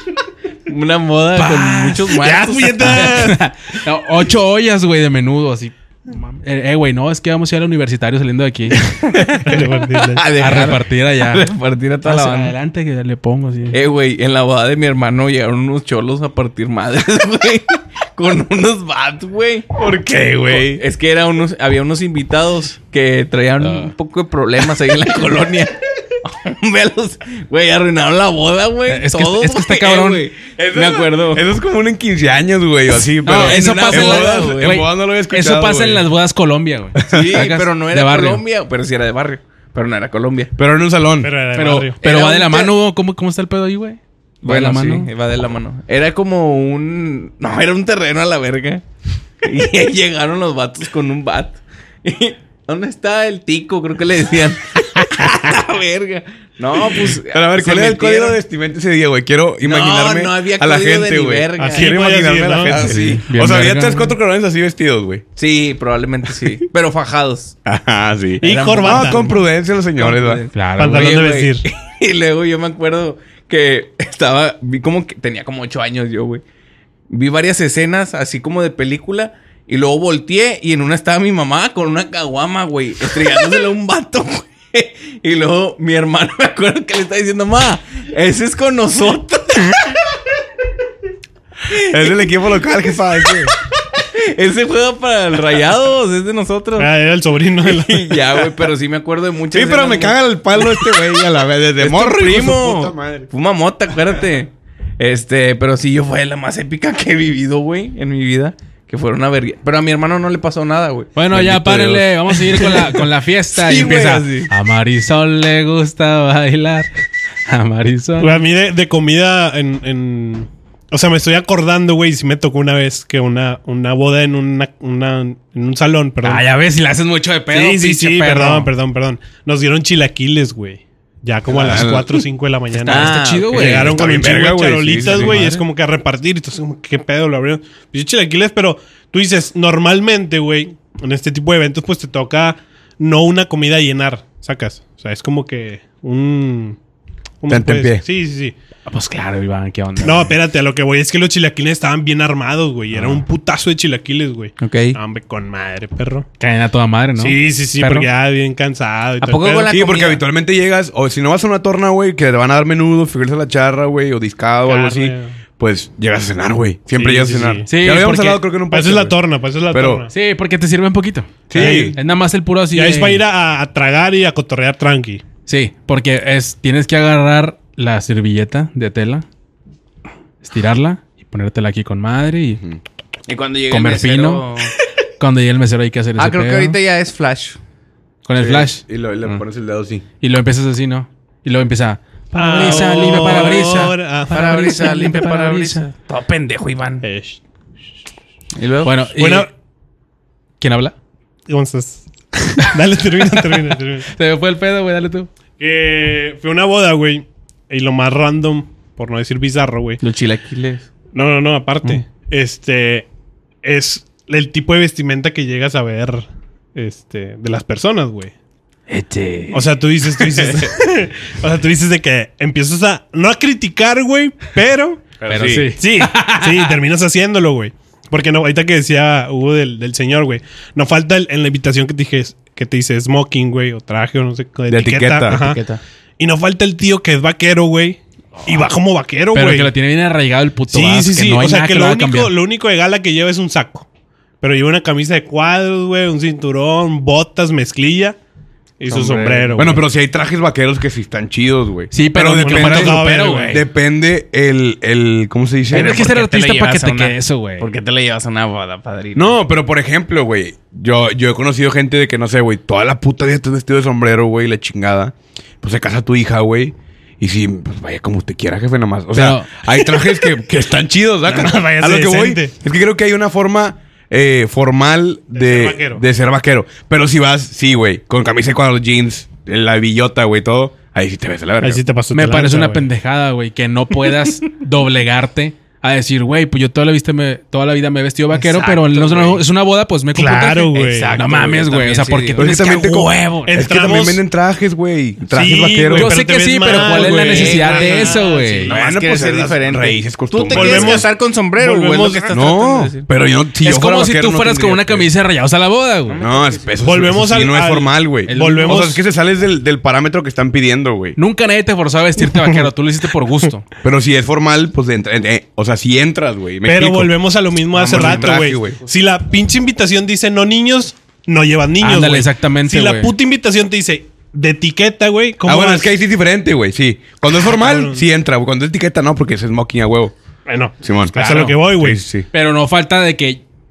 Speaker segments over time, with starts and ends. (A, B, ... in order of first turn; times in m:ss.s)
0:00.7-0:03.3 A
0:01.4-0:02.1 B
0:02.2-0:03.4 C
0:02.8-0:08.9 B
0:08.8-0:12.5 A
0:09.4-0:10.2 C
0:10.3-0:11.5 B
0:12.0-0:13.8 B
0:13.7-0:19.8 A
0:19.8-0:20.8 D
0:20.4-0:31.4 A
0:28.9-0:30.2 B
0:30.6-0:36.1 D
0:33.2-0:38.4 B
0:33.2-0:34.8 A
0:37.0-0:37.4 D
0:37.1-0:40.5 A
0:40.6-0:41.3 D
0:41.2-0:42.0 C
0:41.5-0:45.1 B
0:42.0-0:42.7 A
0:44.4-0:48.8 A
0:49.4-0:58.4 A
0:57.2-1:05.2 D
0:59.6-1:02.0 A
1:01.6-1:02.9 C
1:02.7-1:03.0 A
1:02.8-1:04.1 B
1:05.4-1:07.6 A
1:07.6-1:10.4 D
1:08.4-1:09.3 C
1:08.4-1:09.4 A
1:10.0-1:16.4 A
1:10.5-1:11.2 B
1:10.8-1:11.6 C
1:17.1-1:30.0 A
1:31.7-1:32.6 A
1:31.7-1:33.5 D
1:34.0-1:36.9 A
1:36.8-1:38.2 C
1:37.6-1:41.0 A
1:39.5-1:43.3 D
1:41.8-1:51.1 A
1:51.2-1:56.9 B
1:51.3-1:52.0 D
1:52.4-1:53.0 A
1:53.6-1:54.5 A
1:57.5-1:58.4 B
1:58.2-2:06.4 C
2:06.2-2:08.7 B
2:07.5-2:26.8 C
2:11.5-2:12.2 D
2:12.7-2:14.0 B
2:12.9-2:13.8 A
2:13.6-2:15.4 D
2:15.0-2:15.6 B
2:27.4-2:28.5 C
2:27.5-2:28.0 D
2:28.9-2:30.3 B
2:30.0-2:36.3 C
2:32.9-2:33.2 B
2:34.6-2:35.0 A
2:36.4-2:38.1 B
2:37.2-2:39.7 C
2:39.2-2:40.2 A
2:39.7-2:49.2 D
2:44.6-2:45.4 C
2:46.9-2:47.7 C
2:47.7-2:48.4 B
2:48.7-2:50.1 C
2:49.7-2:50.1 D
2:50.1-2:53.2 B
2:51.5-2:52.0 D
2:51.5-2:52.0 C
2:52.7-2:55.2 C
2:55.4-2:59.2 B
3:00.4-3:02.6 B
3:03.3-3:04.7 A
3:03.7-3:04.4 B
3:05.2-3:06.8 B
3:06.2-3:07.6 A
3:08.2-3:09.4 B
3:08.4-3:10.0 D
3:10.2-3:15.9 B
3:12.3-3:14.9 C
3:12.5-3:13.6 A
3:14.3-3:17.0 A
3:17.0-3:17.4 C
3:18.6-3:18.9 A
3:18.8-3:19.5 B
3:19.1-3:19.5 C
3:20.6-3:20.9 B
3:21.5-3:24.1 C
3:24.1-3:25.3 B
3:25.6-3:30.0 C
3:30.0-3:30.9 A
3:31.1-3:33.0 C
3:33.6-3:38.3 C
3:38.9-3:39.7 B
3:39.5-3:45.1 C
3:45.2-3:45.7 D
3:45.3-3:46.8 B
3:45.7-3:55.6 C
3:54.7-3:55.5 D
3:55.3-3:55.8 A
3:56.2-3:59.7 C
3:59.3-4:02.3 B
4:00.7-4:03.8 C
4:04.4-4:08.2 C
4:08.8-4:09.8 C
4:08.9-4:09.6 B
4:09.6-4:16.1 D
4:11.9-4:13.6 B
4:12.4-4:13.6 C
4:15.7-4:17.7 B
4:15.7-4:19.4 A
4:19.1-4:41.8 D
4:29.1-4:29.6 B
4:31.2-4:32.5 C
4:35.3-4:36.0 C
4:41.6-4:42.9 C
4:42.1-4:53.4 B
4:48.3-4:49.4 A
4:50.1-4:51.1 C
4:50.7-4:53.5 A
4:52.4-4:56.1 D
4:53.4-4:54.2 C
4:55.3-4:58.6 C
4:55.9-4:58.7 B
4:56.7-5:03.0 A
4:58.7-5:01.1 D
5:00.5-5:02.4 C
5:02.3-5:05.1 D
5:03.6-5:06.2 B
5:06.1-5:06.8 A
5:06.2-5:11.2 D
5:06.8-5:09.0 C
5:08.3-5:08.8 B
5:11.2-5:13.7 B
5:13.8-5:17.1 D
5:16.6-5:25.9 C
5:17.7-5:18.4 A
5:17.8-5:18.8 D
5:21.8-5:23.1 B
5:25.4-5:30.1 D
5:27.4-5:28.0 C
5:30.4-5:32.0 C
5:30.8-5:32.3 D
5:32.3-5:33.4 B